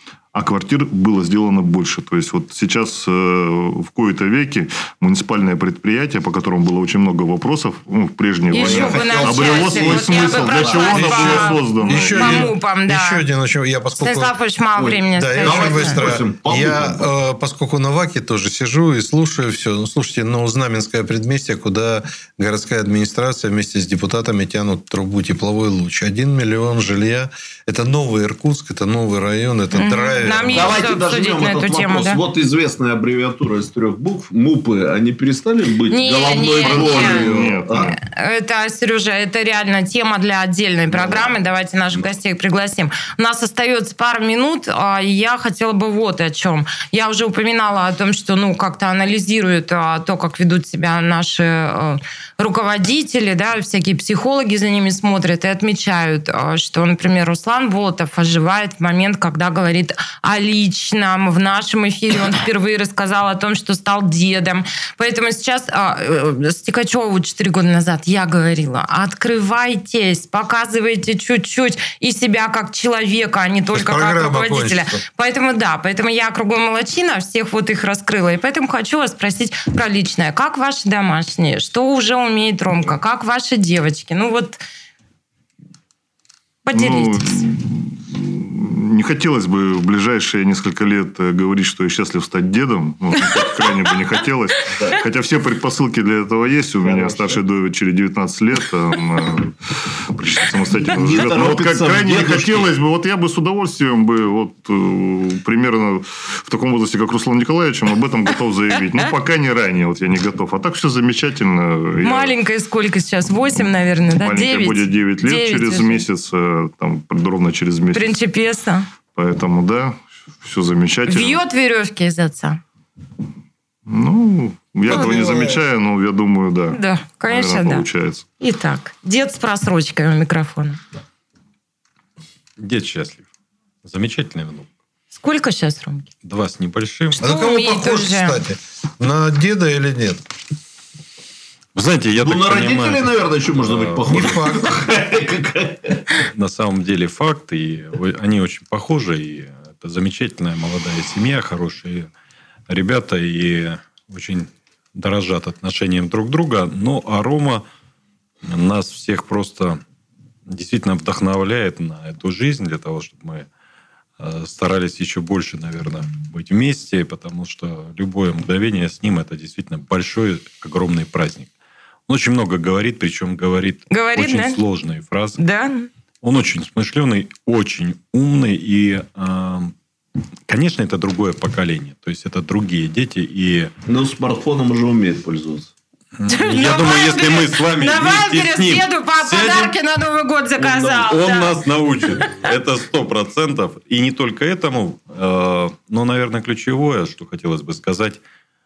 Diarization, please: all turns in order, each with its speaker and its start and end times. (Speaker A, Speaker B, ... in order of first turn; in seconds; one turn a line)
Speaker A: 0.3-12.5
Speaker B: 8.5-13.2
Speaker C: 8.5-11.3
Speaker D: 10.9-14.3
Speaker B: 14.0-16.0
Speaker C: 14.8-17.1
Speaker D: 15.1-30.8
Speaker B: 29.7-32.2
Speaker C: 30.5-38.0
Speaker B: 35.9-37.3
Speaker A: 36.4-38.0
Speaker B: 38.0-84.6
Speaker C: 40.9-41.3
Speaker D: 73.7-75.0
Speaker B: 86.7-87.4
Speaker A: 86.7-112.3
Speaker C: 96.8-97.3
Speaker C: 100.8-102.7
Speaker B: 112.0-116.0
Speaker A: 113.6-118.2
Speaker B: 117.9-118.9
Speaker A: 119.1-121.4
Speaker B: 121.1-122.6
Speaker A: 123.9-128.2
Speaker D: 124.9-125.4
Speaker B: 126.7-127.8
Speaker B: 128.4-130.8
Speaker E: 132.6-133.3
Speaker E: 133.8-134.7
Speaker B: 135.1-136.1
Speaker E: 136.2-137.2
Speaker B: 137.2-138.4
Speaker D: 137.2-140.2
Speaker E: 141.8-144.5
Speaker C: 142.2-146.2
Speaker D: 144.1-144.8
Speaker E: 146.3-152.1
Speaker E: 152.7-157.7
Speaker E: 158.4-159.8
Speaker E: 160.5-163.5
Speaker E: 164.2-171.5
Speaker E: 172.1-175.4
Speaker B: 173.9-174.6
Speaker B: 175.4-175.9
Speaker E: 176.2-179.8
Speaker E: 180.5-183.7
Speaker C: 183.9-185.7
Speaker E: 186.2-189.7
Speaker B: 186.3-191.6
Speaker E: 190.6-198.2